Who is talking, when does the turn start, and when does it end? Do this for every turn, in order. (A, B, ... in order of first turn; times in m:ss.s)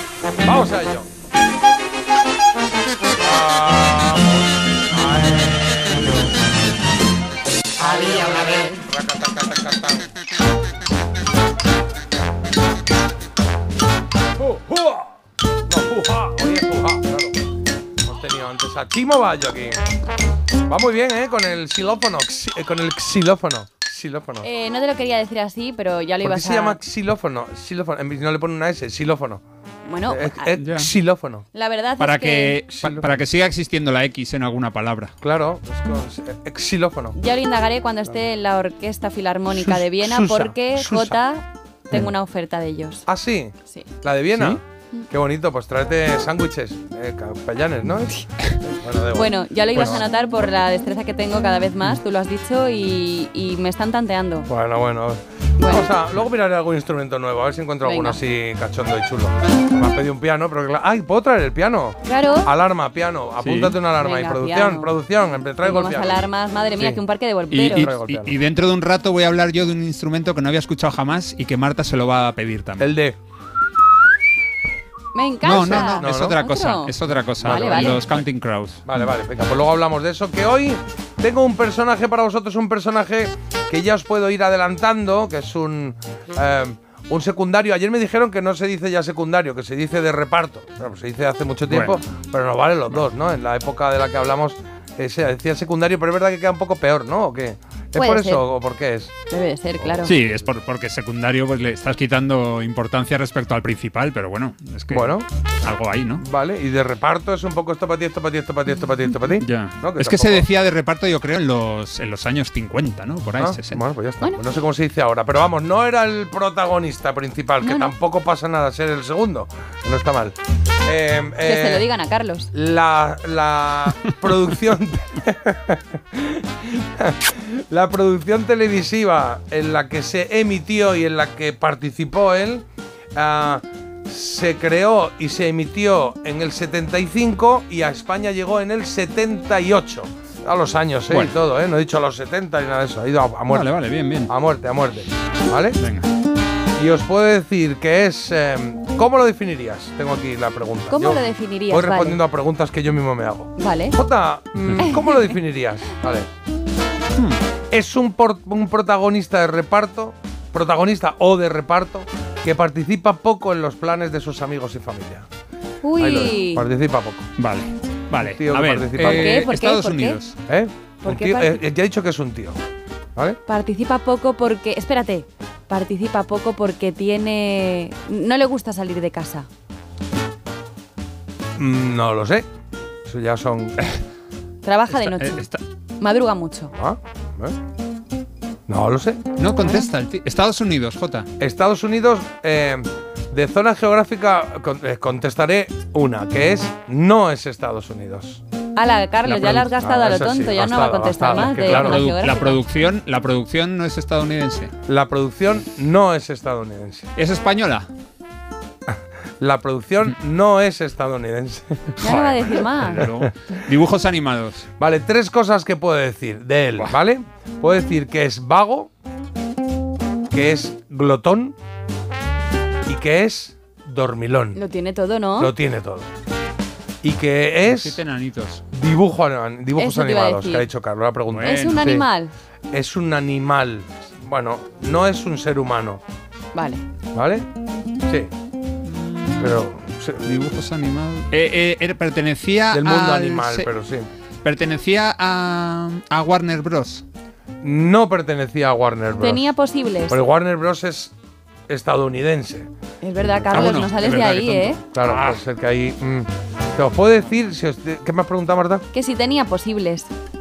0:00.4-0:01.1 A
0:03.2-0:06.3 A
0:07.9-0:10.1 A
0:14.4-0:15.0 A
0:15.7-0:17.4 A
0:18.0-0:19.8 A
0:20.7-0:24.5 A
0:24.4-0:26.8 B
0:26.2-0:29.4 A
0:29.9-0:30.5 B
0:30.1-0:31.4 A
0:30.6-0:30.9 C
0:31.5-0:32.5 B
0:32.0-0:35.1 C
0:32.7-0:33.1 A
0:35.2-0:37.2 A
0:37.2-0:43.0 B
0:39.5-0:41.2 A
0:43.1-0:50.0 A
0:44.3-0:44.6 C
0:49.1-0:54.4 B
0:49.8-0:50.0 C
0:54.5-1:06.2 A
0:57.8-0:58.2 B
1:02.0-1:02.5 B
1:03.4-1:03.8 C
1:03.9-1:04.9 B
1:05.6-1:07.9 B
1:07.5-1:12.9 C
1:07.5-1:08.4 A
1:12.8-1:13.2 A
1:15.1-1:16.9 B
1:15.4-1:18.8 C
1:15.6-1:16.4 A
1:17.2-1:18.2 A
1:17.5-1:18.0 B
1:18.8-1:39.2 A
1:31.7-1:32.0 C
1:38.0-1:38.4 B
1:39.3-1:40.0 B
1:39.8-1:40.5 A
1:40.0-1:46.2 C
1:44.9-1:45.3 A
1:46.2-1:50.5 A
1:49.2-1:53.8 C
1:53.4-2:01.9 A
1:57.6-1:57.9 B
2:01.5-2:02.5 B
2:02.5-2:12.6 A
2:13.2-2:23.7 A
2:23.5-2:24.3 C
2:24.3-2:25.8 A
2:25.8-2:26.1 C
2:26.8-2:36.3 A
2:30.9-2:32.2 B
2:33.6-2:34.0 B
2:34.6-2:35.0 C
2:37.7-2:45.3 A
2:45.8-2:46.6 B
2:46.0-2:47.3 A
2:47.4-2:50.4 C
2:48.2-2:49.5 A
2:49.1-2:50.2 B
2:50.5-2:52.6 A
2:51.1-2:51.6 B
2:53.5-2:59.5 B
3:01.6-3:02.5 A
3:03.1-3:04.0 A
3:04.6-3:05.5 B
3:04.9-3:05.6 C
3:06.0-3:06.7 B
3:06.7-3:07.6 A
3:08.7-3:09.2 A
3:09.4-3:11.3 C
3:11.4-3:18.4 A
3:18.8-3:22.6 B
3:19.3-3:19.8 C
3:19.3-3:22.0 A
3:21.2-3:24.7 C
3:24.9-3:27.1 A
3:27.2-3:27.9 C
3:29.4-3:33.2 A
3:32.0-3:32.7 B
3:32.0-3:34.7 C
3:34.8-3:38.9 A
3:40.3-3:41.6 A
3:42.9-3:44.6 A
3:44.6-3:45.5 B
3:45.4-3:46.1 A
3:47.0-3:48.0 A
3:47.7-3:48.6 C
3:48.7-3:52.1 A
3:49.8-3:50.7 B
3:51.3-3:51.9 C
3:51.4-3:52.3 B
3:52.7-3:56.0 A
3:56.5-3:56.8 B
3:57.1-3:57.5 A
3:58.8-3:59.6 C
3:59.4-4:00.2 A
4:00.2-4:03.7 C
4:02.7-4:04.1 A
4:04.4-4:07.0 C
4:07.6-4:09.5 A
4:09.2-4:10.1 B
4:10.1-4:11.1 A
4:11.7-4:12.7 A
4:13.0-4:14.8 B
4:13.5-4:15.4 C
4:14.9-4:18.8 A
4:18.9-4:20.1 B